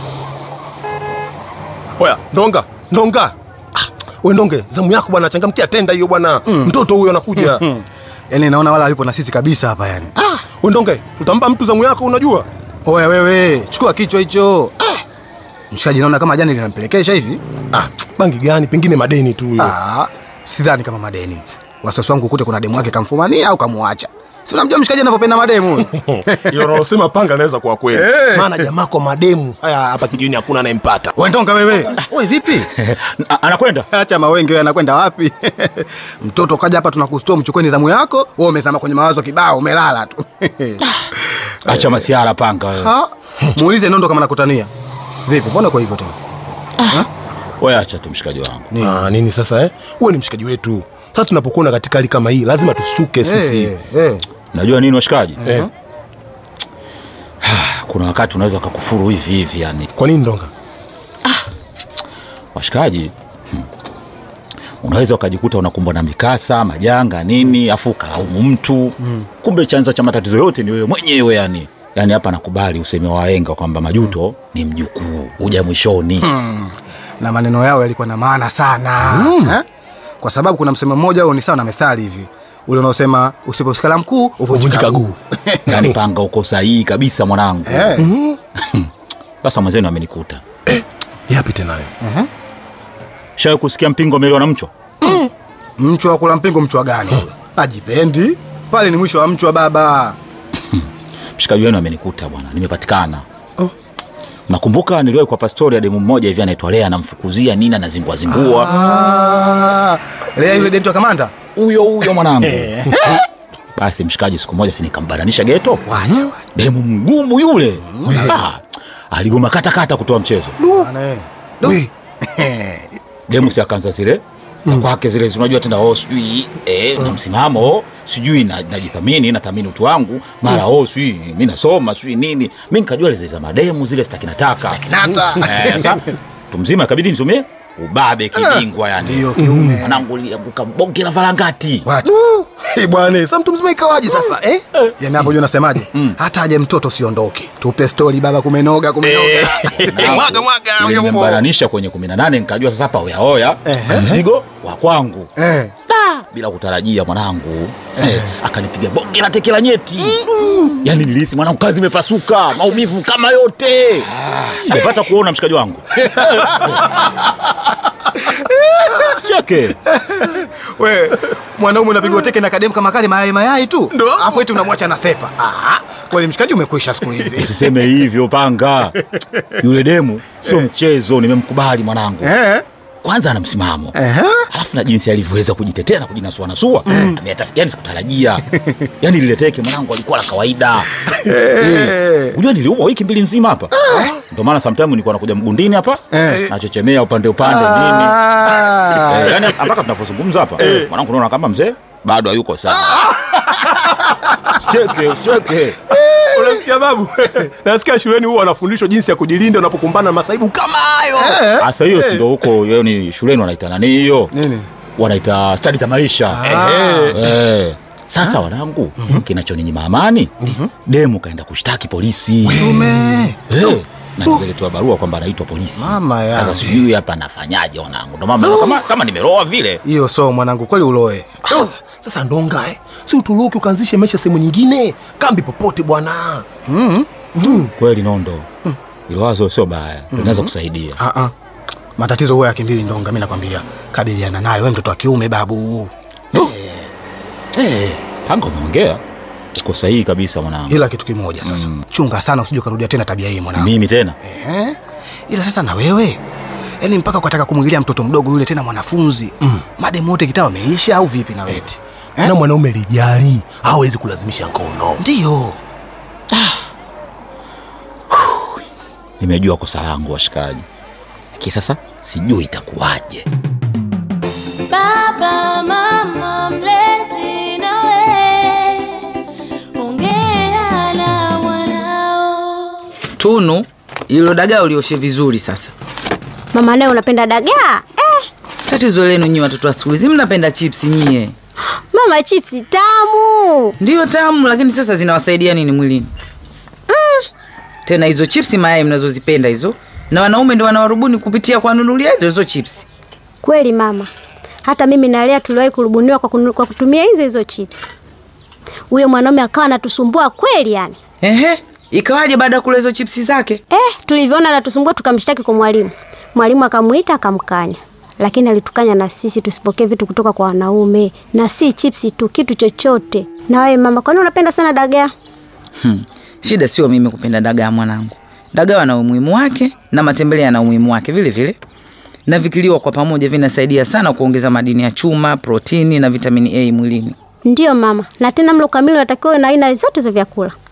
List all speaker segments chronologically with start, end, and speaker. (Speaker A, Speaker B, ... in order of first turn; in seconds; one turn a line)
Speaker A: 2.0-3.3
Speaker A: 4.2-7.6
Speaker B: 6.5-6.7
Speaker B: 7.4-10.1
Speaker A: 10.6-12.5
Speaker B: 12.9-15.0
Speaker B: 15.7-17.4
Speaker A: 17.7-19.7
Speaker B: 19.6-26.8
Speaker A: 26.0-31.1
Speaker B: 28.0-28.7
Speaker B: 31.2-32.7
Speaker C: 32.8-33.9
Speaker B: 33.9-40.8
Speaker C: 41.7-42.9
Speaker B: 41.7-41.9
Speaker B: 42.8-44.7
Speaker B: 45.3-46.1
Speaker C: 47.6-48.7
Speaker B: 48.7-49.1
Speaker A: 48.8-53.7
Speaker B: 53.2-54.2
Speaker C: 54.5-55.4
Speaker B: 55.4-55.7
Speaker C: 57.4-59.9
Speaker A: 60.0-60.5
Speaker C: 62.5-63.6
Speaker C: 64.8-76.3
Speaker B: 76.2-79.6
Speaker A: 79.1-79.5
Speaker B: 80.2-85.8
Speaker A: 84.5-85.1
Speaker C: 85.7-88.0
Speaker B: 87.7-88.1
Speaker A: 88.0-88.4
Speaker C: 88.6-88.9
Speaker C: 89.4-90.4
Speaker A: 90.7-91.9
Speaker B: 92.0-92.3
Speaker C: 93.4-94.7
Speaker B: 95.0-95.3
Speaker B: 95.8-100.2
Speaker C: 101.4-103.2
Speaker C: 104.5-108.7
Speaker B: 108.3-111.3
Speaker C: 111.5-112.8
Speaker B: 112.2-113.2
Speaker C: 113.8-115.8
Speaker B: 115.9-116.3
Speaker C: 116.5-118.6
Speaker B: 117.8-118.4
Speaker A: 118.1-118.3
Speaker C: 119.1-120.6
Speaker B: 120.6-122.9
Speaker C: 123.3-141.9
Speaker B: 134.6-136.0
Speaker B: 138.3-140.0
Speaker B: 141.8-142.2
Speaker A: 142.1-144.6
Speaker B: 145.0-150.3
Speaker A: 149.1-151.4
Speaker C: 149.3-155.3
Speaker B: 153.7-154.2
Speaker B: 155.4-155.7
Speaker C: 155.9-166.7
Speaker B: 166.2-166.7
Speaker C: 168.9-169.8
Speaker B: 169.9-177.6
Speaker A: 173.9-174.4
Speaker C: 177.4-179.0
Speaker C: 179.6-182.4
Speaker B: 182.2-182.6
Speaker C: 183.0-184.0
Speaker B: 183.9-184.4
Speaker C: 184.5-188.5
Speaker B: 186.9-187.2
Speaker C: 189.0-191.0
Speaker B: 191.2-192.3
Speaker C: 191.6-205.8
Speaker B: 196.2-196.5
Speaker B: 197.4-199.4
Speaker A: 200.6-200.9
Speaker A: 206.3-211.4
Speaker B: 206.3-206.6
Speaker B: 211.2-212.2
Speaker C: 211.6-214.3
Speaker B: 214.3-214.7
Speaker C: 215.0-216.6
Speaker B: 216.3-217.2
Speaker A: 216.5-217.2
Speaker C: 217.1-220.3
Speaker B: 220.4-220.7
Speaker C: 220.9-222.8
Speaker A: 222.5-222.8
Speaker B: 222.6-223.6
Speaker C: 223.5-229.8
Speaker B: 225.8-226.7
Speaker B: 228.4-228.8
Speaker B: 229.8-231.4
Speaker A: 231.5-236.4
Speaker B: 236.7-237.1
Speaker A: 237.4-237.7
Speaker C: 237.8-238.5
Speaker C: 239.1-241.0
Speaker B: 240.1-241.3
Speaker B: 242.0-246.6
Speaker C: 247.6-249.0
Speaker C: 249.6-250.8
Speaker B: 250.7-253.7
Speaker C: 251.4-251.8
Speaker C: 253.6-254.2
Speaker B: 254.2-254.8
Speaker B: 255.3-256.2
Speaker B: 256.8-262.3
Speaker A: 262.2-265.0
Speaker B: 265.0-265.6
Speaker C: 269.2-270.6
Speaker C: 271.4-273.2
Speaker D: 274.7-278.9
Speaker D: 279.8-282.8
Speaker E: 283.2-285.7
Speaker F: 286.5-288.2
Speaker E: 288.7-291.3
Speaker F: 291.9-293.7
Speaker E: 293.8-296.1
Speaker F: 296.9-297.3
Speaker E: 297.9-302.9
Speaker F: 303.4-304.1
Speaker F: 304.6-307.9
Speaker F: 308.9-311.0
Speaker E: 311.2-313.6
Speaker F: 313.7-325.1
Speaker E: 325.8-331.6
Speaker E: 332.3-337.1
Speaker F: 337.4-340.6